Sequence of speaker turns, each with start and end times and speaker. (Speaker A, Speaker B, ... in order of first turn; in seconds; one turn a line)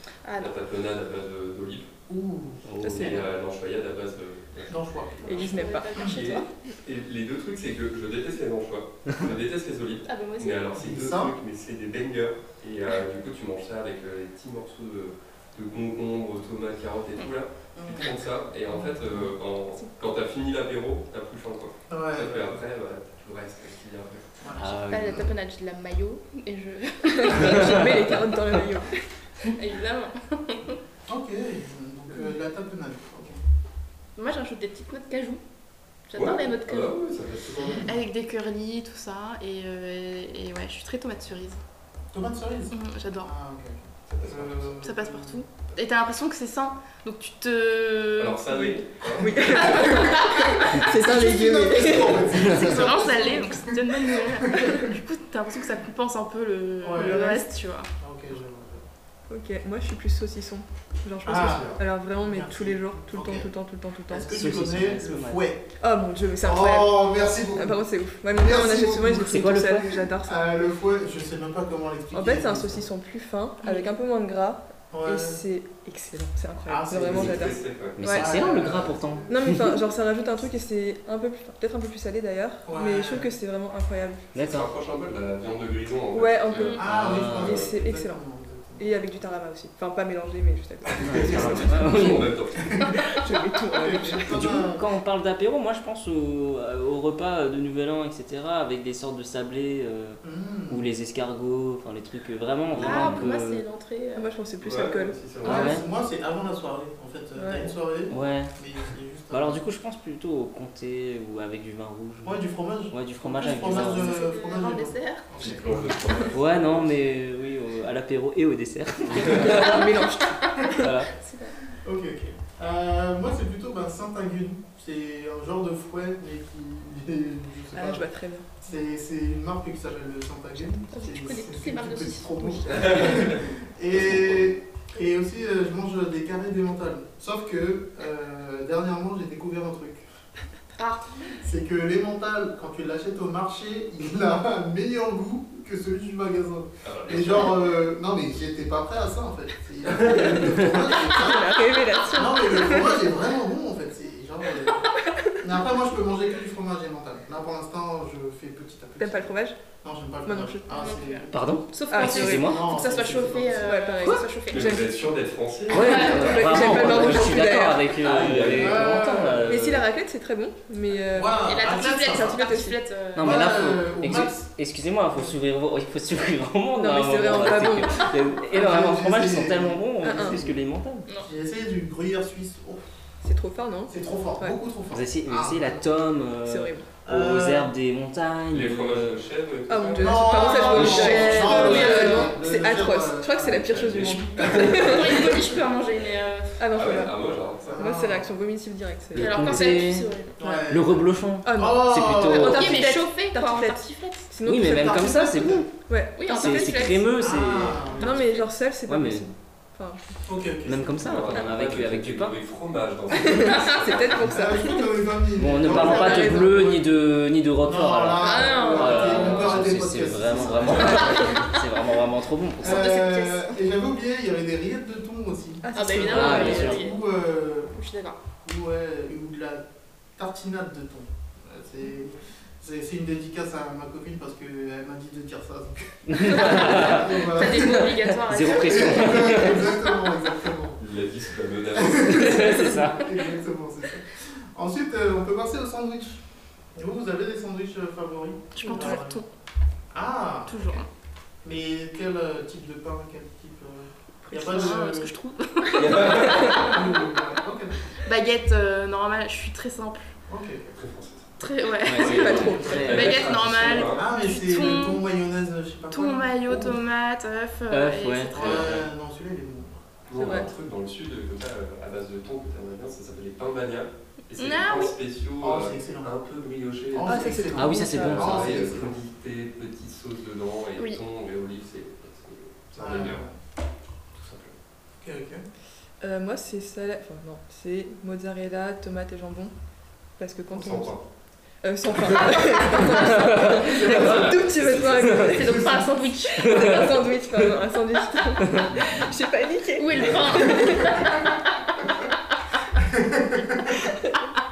Speaker A: 0.2-0.6
Speaker B: 0.4-1.9
Speaker C: 2.1-2.6
Speaker D: 2.6-3.2
Speaker E: 2.8-3.2
Speaker B: 2.9-4.8
Speaker A: 3.0-3.2
Speaker C: 4.7-5.7
Speaker A: 5.2-6.5
Speaker E: 5.2-6.4
Speaker B: 6.0-24.3
Speaker A: 10.0-10.7
Speaker C: 10.7-11.3
Speaker C: 17.8-18.2
Speaker C: 18.7-19.3
Speaker C: 21.9-22.6
Speaker C: 24.4-25.3
Speaker D: 24.5-25.3
Speaker A: 24.9-27.9
Speaker E: 27.1-29.5
Speaker A: 29.4-30.8
Speaker C: 31.1-33.4
Speaker A: 34.1-35.4
Speaker A: 36.1-37.0
Speaker B: 36.1-37.9
Speaker C: 37.6-37.9
Speaker A: 37.7-41.6
Speaker C: 42.1-45.4
Speaker A: 42.7-43.3
Speaker B: 44.1-44.7
Speaker A: 44.8-48.8
Speaker B: 48.2-49.9
Speaker E: 49.2-52.7
Speaker A: 49.5-50.9
Speaker C: 49.7-54.8
Speaker A: 51.8-57.9
Speaker E: 54.6-54.8
Speaker C: 56.8-57.2
Speaker E: 56.9-57.5
Speaker C: 58.0-58.9
Speaker E: 59.3-64.4
Speaker C: 61.2-63.5
Speaker C: 64.1-65.7
Speaker D: 64.3-65.4
Speaker E: 65.8-70.4
Speaker C: 66.4-67.8
Speaker C: 68.3-69.5
Speaker D: 69.3-70.0
Speaker C: 70.1-72.9
Speaker E: 72.1-78.3
Speaker C: 74.9-75.4
Speaker C: 76.7-77.5
Speaker B: 77.0-78.2
Speaker D: 78.0-79.8
Speaker C: 78.0-79.3
Speaker E: 79.3-84.3
Speaker C: 82.7-83.3
Speaker D: 84.3-84.7
Speaker B: 84.3-87.7
Speaker E: 86.1-88.2
Speaker A: 86.5-86.8
Speaker C: 86.8-88.9
Speaker D: 86.8-87.6
Speaker E: 88.8-94.5
Speaker C: 91.0-91.6
Speaker D: 91.0-92.3
Speaker B: 91.1-92.9
Speaker C: 92.6-92.9
Speaker C: 93.7-94.8
Speaker D: 94.2-103.6
Speaker C: 100.2-100.8
Speaker B: 102.7-103.2
Speaker A: 102.8-104.3
Speaker E: 104.1-105.6
Speaker B: 104.6-105.7
Speaker C: 105.4-109.6
Speaker D: 105.4-105.8
Speaker E: 107.3-107.7
Speaker D: 108.1-108.5
Speaker D: 109.3-114.1
Speaker C: 112.2-116.0
Speaker A: 113.5-115.5
Speaker B: 115.4-117.0
Speaker D: 116.3-119.8
Speaker E: 119.2-120.9
Speaker D: 120.7-121.1
Speaker A: 121.1-121.6
Speaker C: 121.7-140.0
Speaker E: 127.7-128.5
Speaker A: 130.9-133.2
Speaker B: 132.7-133.4
Speaker B: 133.9-134.4
Speaker A: 140.8-141.3
Speaker C: 141.4-161.3
Speaker B: 146.8-147.6
Speaker E: 150.0-153.1
Speaker E: 155.0-155.4
Speaker E: 159.0-159.6
Speaker E: 160.2-160.7
Speaker A: 160.7-164.9
Speaker D: 161.3-162.7
Speaker E: 161.9-162.7
Speaker C: 162.1-163.7
Speaker E: 163.6-164.9
Speaker B: 164.5-167.2
Speaker D: 165.7-169.8
Speaker A: 165.8-166.3
Speaker E: 165.8-168.0
Speaker B: 168.0-168.9
Speaker C: 168.2-169.6
Speaker E: 169.4-171.5
Speaker C: 171.1-172.4
Speaker A: 171.4-173.5
Speaker E: 172.0-172.8
Speaker D: 173.1-181.1
Speaker C: 173.2-174.5
Speaker E: 176.8-178.2
Speaker C: 178.5-180.6
Speaker E: 180.0-180.4
Speaker C: 181.2-182.8
Speaker E: 183.2-184.6
Speaker C: 183.9-185.9
Speaker D: 184.9-189.2
Speaker E: 186.4-186.9
Speaker C: 187.0-187.7
Speaker B: 188.5-191.4
Speaker E: 189.7-195.3
Speaker C: 189.9-193.8
Speaker A: 190.4-192.3
Speaker D: 190.7-191.9
Speaker B: 193.6-195.6
Speaker A: 194.8-196.6
Speaker E: 196.6-197.2
Speaker B: 196.7-197.9
Speaker C: 197.7-198.3
Speaker E: 197.8-199.5
Speaker D: 199.1-200.1
Speaker A: 199.2-200.3
Speaker B: 199.2-199.6
Speaker C: 200.4-202.6
Speaker E: 200.4-200.7
Speaker D: 200.7-202.9
Speaker E: 201.4-207.1
Speaker A: 202.3-204.3
Speaker D: 204.4-205.7
Speaker C: 204.6-205.7
Speaker A: 206.2-207.2
Speaker D: 206.2-207.9
Speaker C: 207.2-208.3
Speaker A: 207.9-208.4
Speaker E: 208.0-210.0
Speaker D: 208.9-209.3
Speaker C: 210.2-211.1
Speaker D: 210.6-212.3
Speaker B: 211.0-214.4
Speaker E: 213.1-215.0
Speaker C: 214.2-216.8
Speaker D: 215.3-222.8
Speaker E: 215.6-216.7
Speaker C: 217.6-221.4
Speaker A: 218.2-219.7
Speaker E: 220.8-221.2
Speaker A: 220.9-221.5
Speaker C: 222.6-227.8
Speaker A: 222.6-223.6
Speaker E: 225.6-226.7
Speaker A: 225.7-227.0
Speaker D: 226.1-226.8
Speaker A: 227.7-228.2
Speaker C: 228.4-229.6
Speaker C: 230.2-240.8
Speaker D: 236.1-239.7
Speaker A: 236.4-239.5
Speaker B: 240.8-242.7
Speaker C: 241.7-246.2
Speaker D: 242.1-243.1
Speaker C: 246.7-249.2
Speaker A: 248.6-249.3
Speaker E: 248.6-249.0
Speaker C: 249.9-250.7
Speaker A: 250.5-250.9
Speaker C: 251.4-255.1
Speaker E: 254.2-254.8
Speaker A: 254.5-257.1
Speaker B: 255.7-256.6
Speaker C: 255.9-257.9
Speaker A: 258.0-260.1
Speaker C: 260.3-260.8
Speaker B: 260.8-261.3
Speaker A: 261.4-265.0
Speaker D: 261.8-263.8
Speaker E: 261.9-263.1
Speaker B: 262.0-264.0
Speaker C: 262.3-263.1
Speaker C: 263.9-266.8
Speaker A: 265.9-268.8
Speaker D: 267.7-268.8
Speaker C: 268.3-270.4
Speaker B: 268.4-268.8
Speaker B: 270.1-283.2
Speaker E: 270.1-270.5
Speaker A: 274.4-274.9
Speaker C: 275.4-276.1
Speaker C: 276.9-279.0
Speaker E: 277.0-278.3
Speaker D: 277.5-278.8
Speaker C: 282.8-283.4
Speaker B: 284.1-284.5
Speaker C: 285.0-285.4
Speaker E: 286.0-289.5
Speaker E: 290.2-290.9
Speaker B: 290.5-291.0
Speaker E: 291.6-295.7
Speaker D: 292.9-294.3
Speaker C: 293.6-294.3
Speaker B: 293.8-295.3
Speaker D: 294.9-295.4
Speaker A: 295.1-297.0
Speaker C: 295.5-295.8
Speaker E: 296.3-301.1
Speaker D: 296.4-297.1
Speaker D: 298.4-298.7
Speaker A: 299.8-301.6
Speaker C: 302.8-303.8
Speaker E: 303.7-304.2